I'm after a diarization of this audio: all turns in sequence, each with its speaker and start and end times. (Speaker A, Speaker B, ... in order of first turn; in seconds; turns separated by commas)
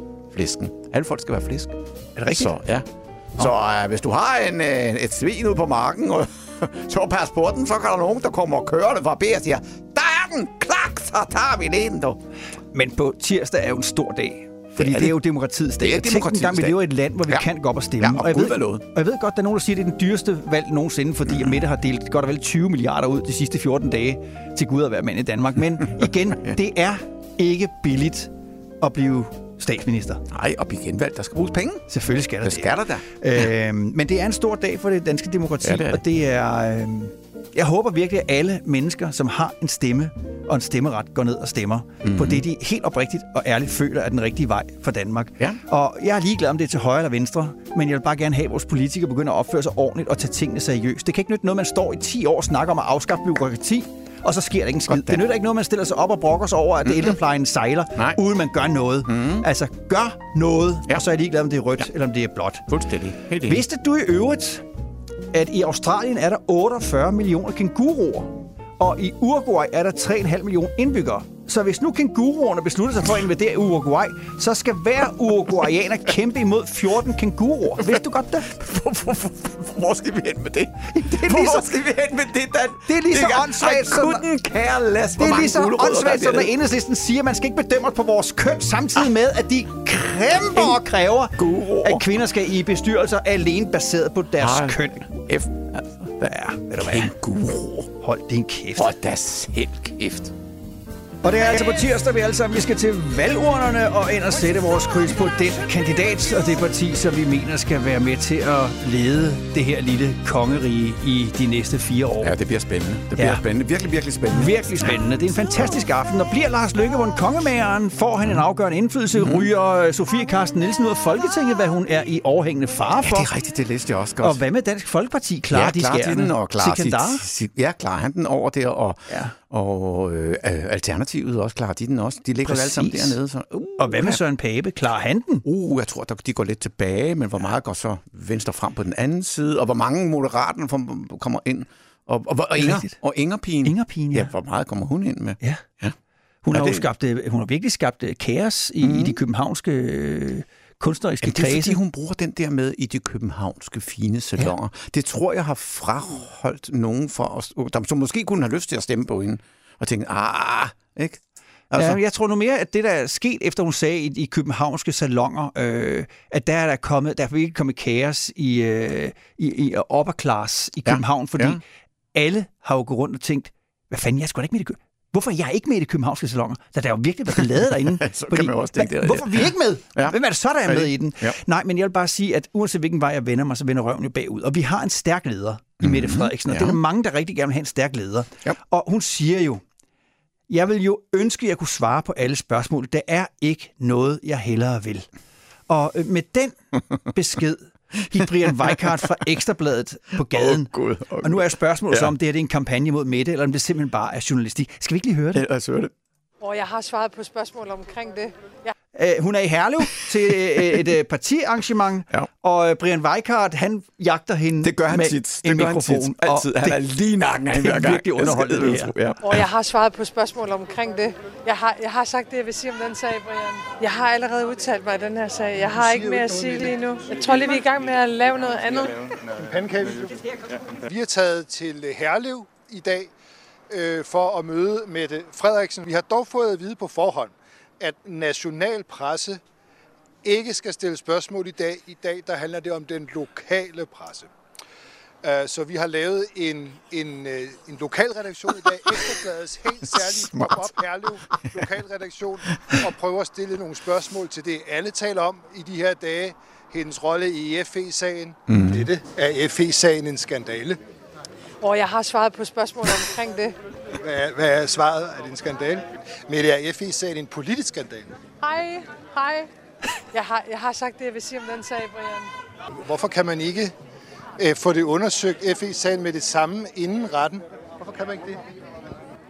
Speaker A: 0.3-1.7, Speaker B: 2.2-2.5, Speaker A: 2.3-12.2, Speaker B: 12.7-30.2, Speaker A: 14.8-15.2, Speaker A: 15.8-17.4, Speaker A: 18.0-18.8, Speaker A: 21.3-21.6, Speaker A: 30.3-31.9, Speaker B: 31.9-62.6, Speaker A: 32.4-33.0, Speaker A: 35.6-36.0, Speaker A: 42.0-42.4, Speaker A: 54.9-55.2, Speaker A: 56.8-57.1, Speaker A: 59.1-59.5, Speaker A: 62.7-63.6, Speaker B: 63.4-64.6, Speaker B: 65.3-78.5, Speaker A: 77.8-86.5, Speaker B: 80.9-81.7, Speaker B: 82.9-84.2, Speaker B: 85.2-95.0, Speaker A: 91.3-92.2, Speaker A: 94.4-97.9, Speaker B: 96.2-97.1, Speaker B: 98.0-98.9, Speaker A: 98.8-100.3, Speaker B: 101.2-112.3, Speaker A: 112.2-115.0, Speaker B: 113.2-113.4, Speaker B: 114.3-123.3, Speaker A: 119.1-119.5, Speaker A: 123.0-124.4, Speaker B: 124.2-127.2, Speaker A: 125.5-134.2, Speaker B: 129.1-129.3, Speaker B: 132.4-133.2, Speaker B: 133.8-135.4, Speaker A: 135.4-145.9, Speaker B: 142.6-142.9, Speaker B: 143.6-144.3, Speaker B: 146.4-151.8, Speaker A: 146.5-146.8, Speaker A: 148.8-149.2, Speaker A: 151.2-161.2, Speaker A: 161.7-162.0, Speaker B: 161.8-171.6, Speaker A: 170.8-171.6, Speaker B: 172.1-189.6, Speaker A: 177.8-181.4, Speaker A: 185.8-186.8, Speaker B: 190.5-195.1, Speaker B: 195.7-196.6, Speaker B: 197.1-205.4, Speaker A: 200.2-202.1, Speaker A: 205.3-205.9, Speaker C: 206.4-208.7, Speaker B: 208.9-216.8, Speaker A: 214.6-219.4, Speaker B: 217.5-218.9, Speaker C: 219.2-229.1, Speaker D: 225.6-226.8, Speaker D: 229.3-233.1, Speaker D: 233.7-239.4, Speaker D: 240.2-244.3, Speaker D: 245.2-260.8, Speaker A: 249.9-250.7, Speaker A: 252.5-252.8, Speaker A: 258.5-258.9, Speaker C: 261.6-263.5, Speaker D: 264.0-268.2, Speaker C: 268.4-269.5, Speaker C: 270.1-272.3, Speaker D: 272.7-273.7, Speaker D: 274.4-278.4